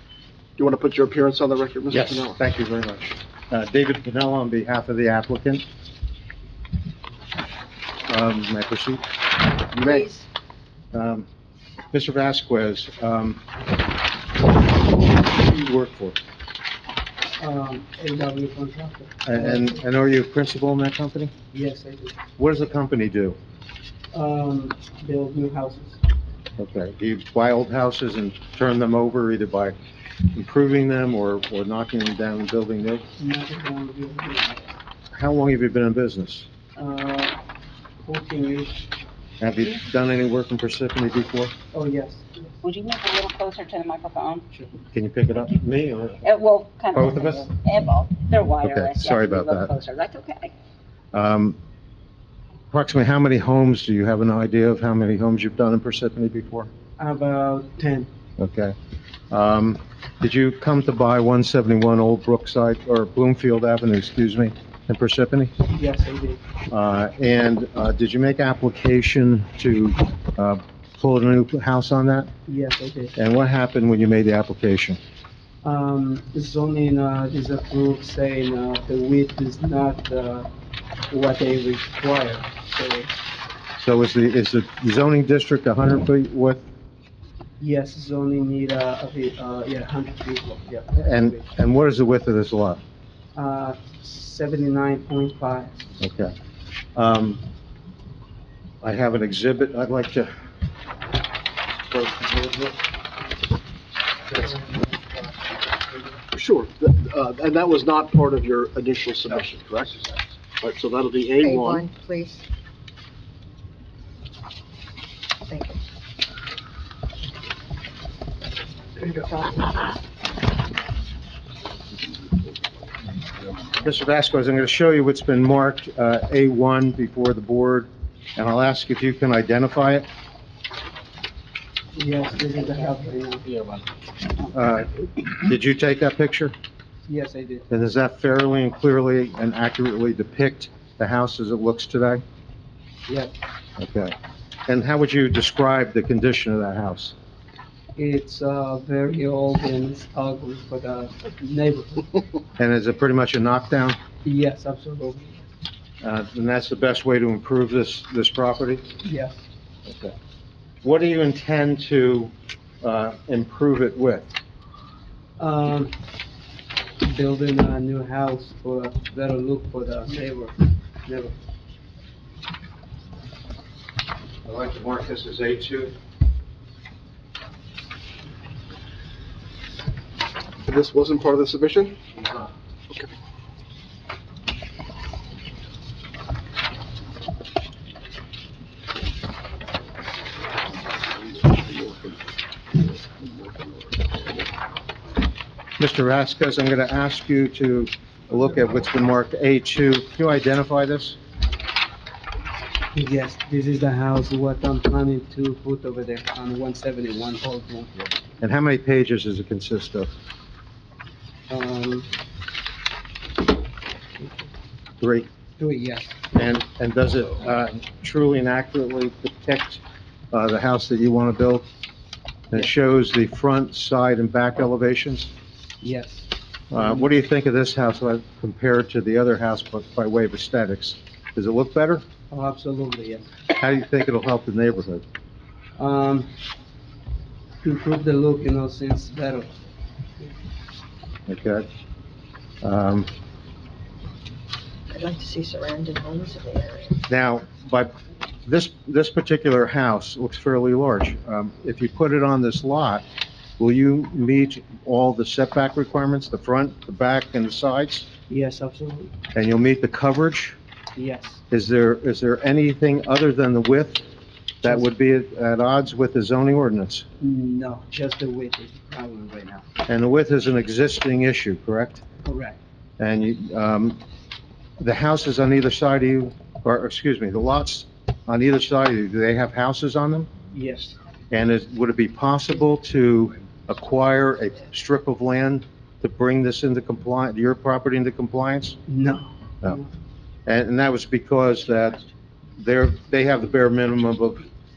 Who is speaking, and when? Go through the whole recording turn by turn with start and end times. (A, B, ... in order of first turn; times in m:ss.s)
0:00.6-0:02.4 A
0:01.9-0:05.6 B
0:08.1-0:09.0 B
0:09.7-0:10.2 C
0:10.9-0:11.3 B
0:11.9-0:13.4 B
0:15.2-0:16.2 B
0:17.4-0:19.8 D
0:19.2-0:21.3 B
0:21.5-0:22.2 D
0:22.4-0:23.4 B
0:24.1-0:26.0 D
0:26.6-0:29.8 B
0:30.3-0:33.0 B
0:33.2-0:34.7 D
0:35.1-0:36.4 B
0:36.8-0:37.4 D
0:38.0-0:38.8 D
0:39.4-0:41.5 B
0:41.7-0:42.5 D
0:42.6-0:44.4 E
0:44.9-0:46.3 B
0:46.2-0:50.5 E
0:46.9-0:47.5 B
0:48.6-0:49.7 B
0:51.1-0:51.6 B
0:52.7-0:56.7 B
0:57.0-0:58.1 D
0:58.4-0:58.7 B
0:59.3-1:05.5 B
1:05.7-1:06.4 D
1:06.7-1:12.3 B
1:12.5-1:13.2 D
1:13.2-1:15.0 B
1:15.6-1:20.5 D
1:21.1-1:23.1 D
1:23.8-1:26.6 B
1:27.6-1:31.4 D
1:30.9-1:32.8 B
1:33.3-1:35.8 D
1:36.0-1:36.3 B
1:37.0-1:37.4 B
1:38.8-1:40.3 B
1:41.9-1:42.7 B
1:44.4-1:44.7 B
1:46.3-1:51.9 A
1:51.4-1:52.4 C
1:55.4-1:55.8 C
1:59.0-2:00.0 C
2:03.8-2:10.1 B
2:11.9-2:13.5 D
2:14.5-2:16.5 B
2:17.1-2:17.6 D
2:17.7-2:22.2 B
2:23.1-2:23.4 D
2:23.8-2:24.1 B
2:24.7-2:27.1 B
2:28.0-2:32.2 D
2:32.6-2:34.0 B
2:34.2-2:35.4 D
2:36.0-2:38.8 B
2:39.0-2:39.4 D
2:39.9-2:40.1 B
2:40.8-2:44.3 B
2:45.4-2:45.9 D
2:47.0-2:51.3 D
2:54.4-2:55.9 B
3:00.6-3:02.0 A
3:02.1-3:02.5 B
3:11.3-3:12.2 A
3:15.8-3:21.2 B
3:22.9-3:28.0 D
3:28.4-3:30.1 B
3:31.5-3:32.1 D
3:34.2-3:34.5 D
3:35.0-3:35.3 B
3:35.6-3:36.2 D
3:36.3-3:41.7 B
3:42.5-3:45.3 B
3:45.8-3:47.0 D
3:46.7-3:52.0 B
3:52.3-3:53.3 D
3:53.5-3:55.0 B
3:55.8-3:56.3 D
3:57.6-3:59.5 D
4:01.3-4:01.6 B
4:02.6-4:03.1 B
4:04.9-4:07.0 C
4:07.1-4:07.9 B
4:08.4-4:13.0 B
4:13.6-4:18.1 B
4:18.3-4:19.1 D
4:19.3-4:20.6 B
4:21.0-4:21.4 D
4:21.5-4:24.0 B
4:24.6-4:27.0 B
4:27.2-4:29.6 D
4:29.9-4:32.0 B
4:32.2-4:32.6 D
4:33.0-4:34.0 B
4:34.8-4:40.3 B
4:40.5-4:41.0 D
4:41.3-4:48.8 B
4:48.9-4:49.9 D
4:50.5-4:52.0 B
4:52.6-4:54.4 B